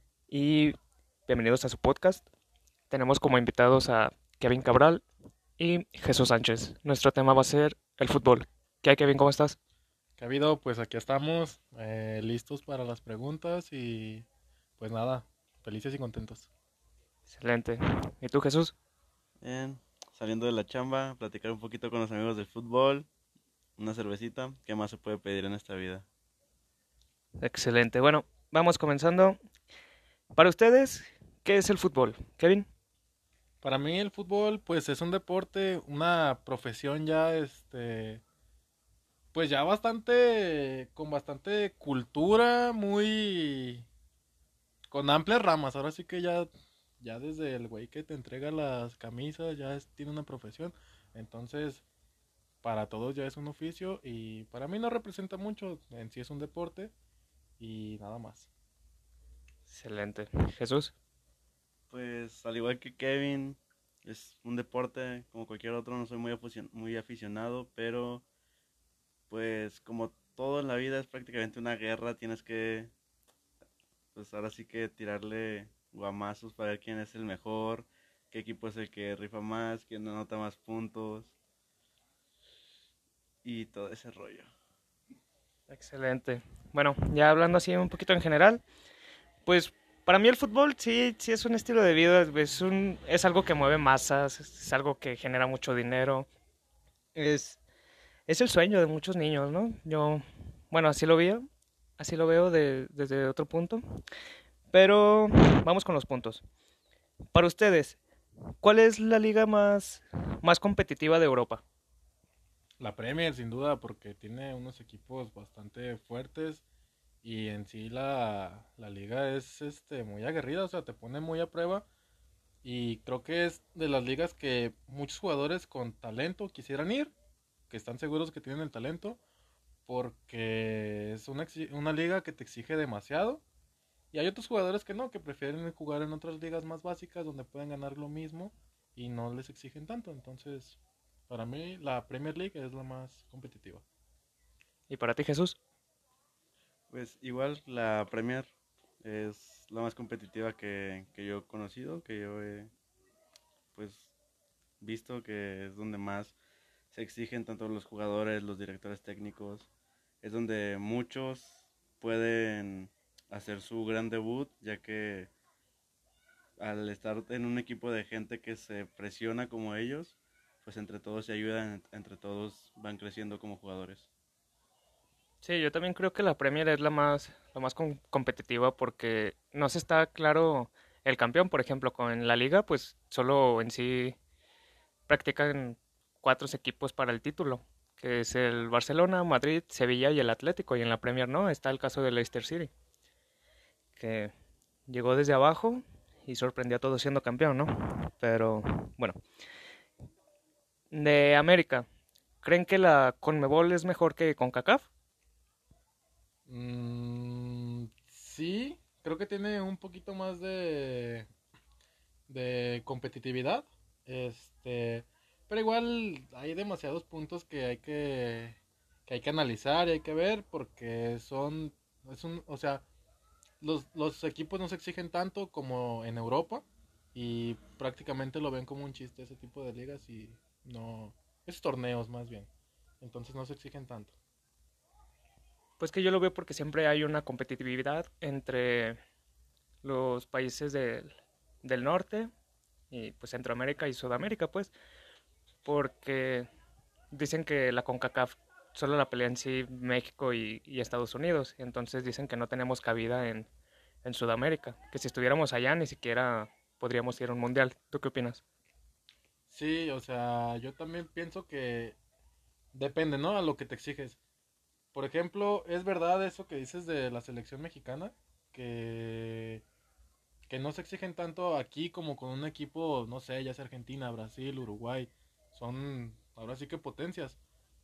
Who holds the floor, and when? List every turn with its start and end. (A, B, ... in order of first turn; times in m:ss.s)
0:00.3-0:00.8 A
0:01.3-0:02.2 A
0:02.9-0:05.0 A
0:05.6-0:09.6 A
0:10.2-0:14.2 B
0:14.8-0:16.5 B
0:17.2-0:18.8 A
0:19.4-0:23.1 C
0:23.8-0:26.0 C
0:27.4-0:29.4 A
0:30.3-0:32.7 A
0:33.6-0:38.2 B
0:39.3-0:43.9 B
0:44.9-0:51.8 B
0:52.6-0:56.9 B
0:57.6-0:58.5 B
0:59.7-1:00.9 A
1:01.9-1:08.2 C
1:09.3-1:12.9 C
1:14.2-1:21.3 C
1:23.4-1:24.5 C
1:25.7-1:28.6 A
1:29.4-1:36.3 A
1:37.2-1:37.6 A
1:38.3-1:41.4 A
1:42.0-1:43.8 A
1:44.7-1:46.4 A
1:47.3-1:48.0 A
1:48.6-1:51.6 A
1:52.8-1:56.6 B
1:57.2-2:01.9 B
2:02.6-2:07.1 B
2:07.7-2:09.2 B
2:09.8-2:13.4 B
2:14.1-2:23.8 B
2:24.9-2:25.6 A
2:26.9-2:28.5 C
2:29.0-2:32.7 C
2:33.7-2:34.1 C
2:34.8-2:36.3 C
2:36.9-2:39.7 C
2:40.2-2:45.3 C
2:46.6-2:54.1 C
2:55.4-3:04.2 A
3:05.1-3:12.7 A
3:14.0-3:14.3 A
3:14.9-3:19.2 A
3:20.9-3:21.9 A
3:22.4-3:24.9 A
3:26.5-3:31.3 B
3:32.3-3:42.8 B
3:43.6-3:52.5 B
3:53.0-3:54.2 B
3:55.8-3:59.0 A
3:59.8-4:01.1 A
4:01.6-4:02.3 A
4:02.9-4:04.7 A
4:05.6-4:06.5 A
4:07.1-4:13.5 A
4:14.0-4:18.4 A
4:19.5-4:22.0 B
4:22.7-4:24.2 B
4:24.9-4:29.6 B
4:30.5-4:37.4 B